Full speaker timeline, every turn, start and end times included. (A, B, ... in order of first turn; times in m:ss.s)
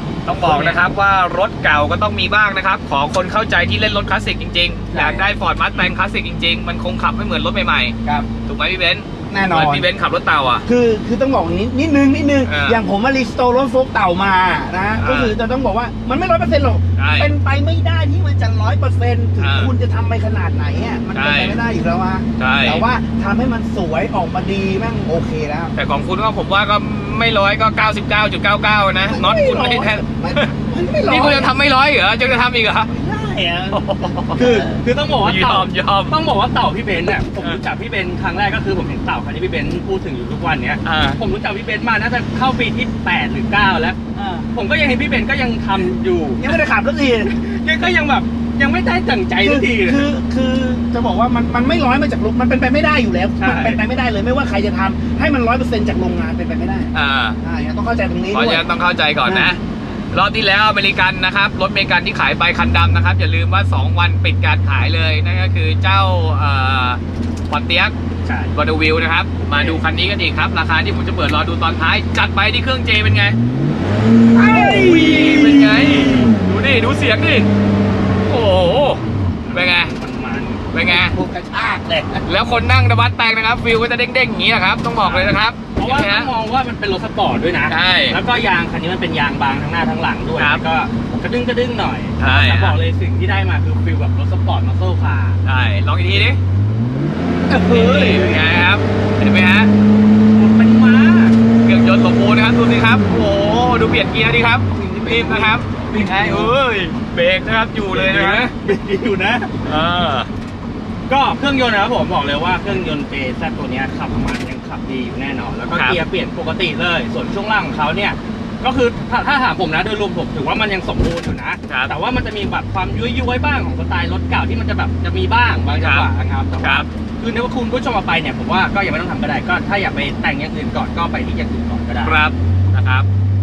0:00.3-0:10.6 A
0:00.4-0:00.8 B
0:04.9-0:05.3 B
0:09.3-0:09.9 B
0:10.6-0:25.8 B
0:12.4-0:12.8 A
0:15.0-0:15.4 A
0:17.0-0:17.3 A
0:19.4-0:19.7 A
0:21.1-0:21.6 A
0:22.4-0:22.9 A
0:25.8-0:30.5 A
0:29.0-0:31.5 B
0:31.1-0:32.9 A
0:32.9-0:33.8 B
0:33.7-0:34.6 A
0:34.4-0:44.0 C
0:34.4-0:34.8 B
0:35.2-0:36.2 A
0:40.8-0:41.2 A
0:44.2-0:44.5 B
0:44.5-0:46.5 C
0:46.4-0:47.3 B
0:47.2-0:50.0 C
0:49.4-0:58.7 B
0:53.4-0:53.8 C
0:56.9-0:57.4 A
0:58.3-1:08.0 A
0:59.2-0:59.6 B
1:08.2-1:08.6 C
1:08.5-1:13.4 A
1:09.6-1:09.8 C
1:14.4-1:15.4 B
1:14.4-1:16.3 C
1:14.4-1:17.5 A
1:18.2-1:20.0 A
1:19.5-1:22.2 C
1:20.7-1:21.2 A
1:20.9-1:22.2 B
1:22.3-1:26.3 A
1:25.0-1:35.4 C
1:27.7-1:28.2 A
1:30.4-1:30.6 A
1:32.2-1:32.8 A
1:35.4-1:36.4 A
1:37.5-1:39.7 A
1:37.7-1:38.3 B
1:37.7-1:38.4 C
1:40.3-1:41.4 C
1:41.6-1:48.5 A
1:44.8-1:46.5 B
1:45.0-1:45.5 C
1:46.0-1:46.5 C
1:47.9-1:49.6 C
1:49.6-1:50.3 A
1:51.1-2:12.2 C
1:55.7-1:56.0 A
2:01.7-2:01.9 A
2:05.7-2:06.1 A
2:06.6-2:06.9 A
2:12.0-2:13.1 A